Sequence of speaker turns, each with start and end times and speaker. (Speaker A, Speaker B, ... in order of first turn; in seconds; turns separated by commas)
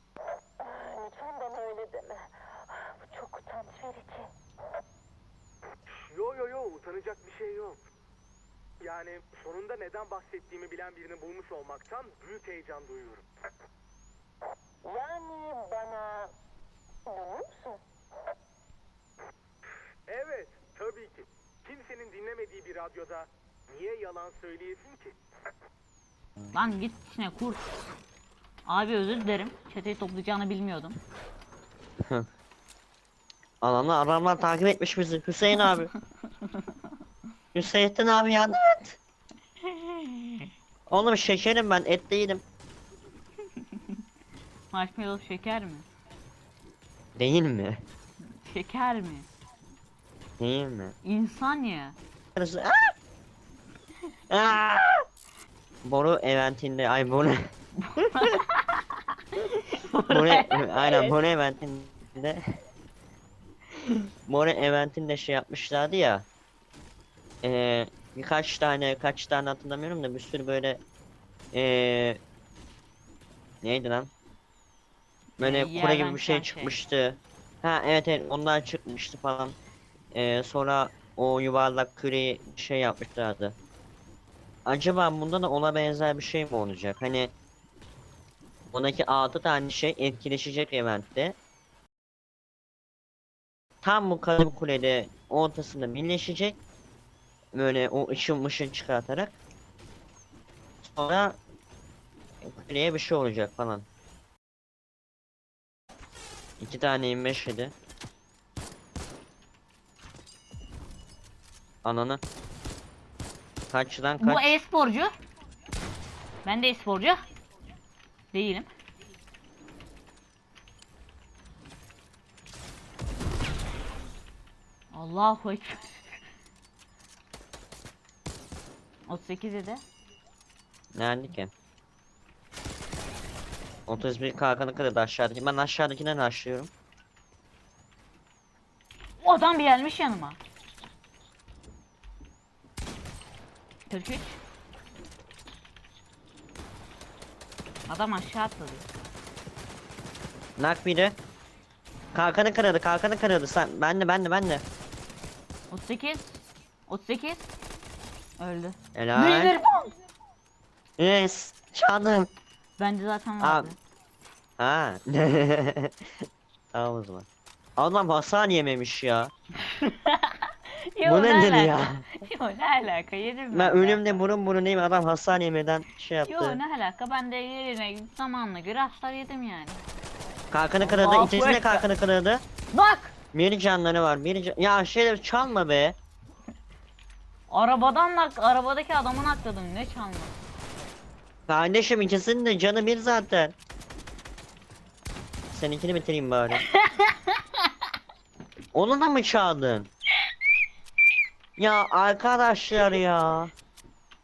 Speaker A: 0.8-2.2, Speaker A: 3.0-4.2, Speaker B: 5.9-7.8, Speaker B: 8.8-13.2, Speaker A: 14.8-16.3, Speaker A: 17.1-17.8, Speaker B: 20.1-25.1, Speaker C: 26.5-27.7, Speaker C: 28.6-31.0, Speaker D: 33.6-35.9, Speaker D: 37.5-39.0, Speaker C: 39.7-40.5, Speaker D: 40.9-42.4, Speaker C: 44.7-45.9, Speaker D: 47.2-47.8, Speaker C: 48.2-49.3, Speaker D: 50.4-50.9, Speaker C: 51.0-52.0, Speaker D: 52.4-52.9, Speaker D: 54.3-55.0, Speaker D: 55.8-57.5, Speaker C: 57.8-61.1, Speaker D: 60.1-62.4, Speaker D: 64.3-66.2, Speaker D: 67.4-70.8, Speaker D: 71.5-72.2, Speaker D: 73.6-74.1, Speaker C: 75.4-76.8, Speaker D: 75.4-79.5, Speaker D: 80.1-83.5, Speaker D: 84.7-87.3, Speaker D: 88.7-91.3, Speaker D: 93.8-96.6, Speaker D: 97.5-99.3, Speaker D: 100.8-101.4, Speaker D: 102.4-103.8, Speaker D: 106.6-107.7, Speaker D: 111.8-112.2, Speaker D: 113.7-114.6, Speaker C: 114.2-115.1, Speaker C: 116.4-117.2, Speaker C: 118.3-118.7, Speaker C: 124.9-126.0, Speaker C: 129.1-129.8, Speaker D: 130.9-131.5, Speaker D: 133.9-136.7, Speaker C: 139.2-140.4, Speaker C: 143.9-144.4, Speaker C: 147.9-148.8, Speaker D: 150.6-151.2, Speaker D: 152.1-154.6, Speaker C: 155.7-157.5, Speaker C: 158.4-159.9, Speaker D: 158.9-159.6, Speaker D: 161.0-162.3, Speaker C: 162.8-163.8, Speaker D: 163.4-163.7, Speaker D: 164.6-166.1, Speaker D: 166.7-167.2, Speaker D: 167.8-169.3, Speaker C: 169.7-174.2, Speaker D: 171.0-172.0, Speaker D: 173.5-176.6, Speaker C: 176.2-179.8, Speaker D: 180.5-182.4, Speaker C: 180.8-181.9, Speaker C: 182.7-183.1, Speaker D: 183.3-185.9, Speaker C: 187.5-190.3, Speaker D: 191.5-193.5, Speaker D: 195.5-196.6, Speaker C: 196.7-197.4, Speaker D: 198.7-199.9, Speaker D: 201.6-203.5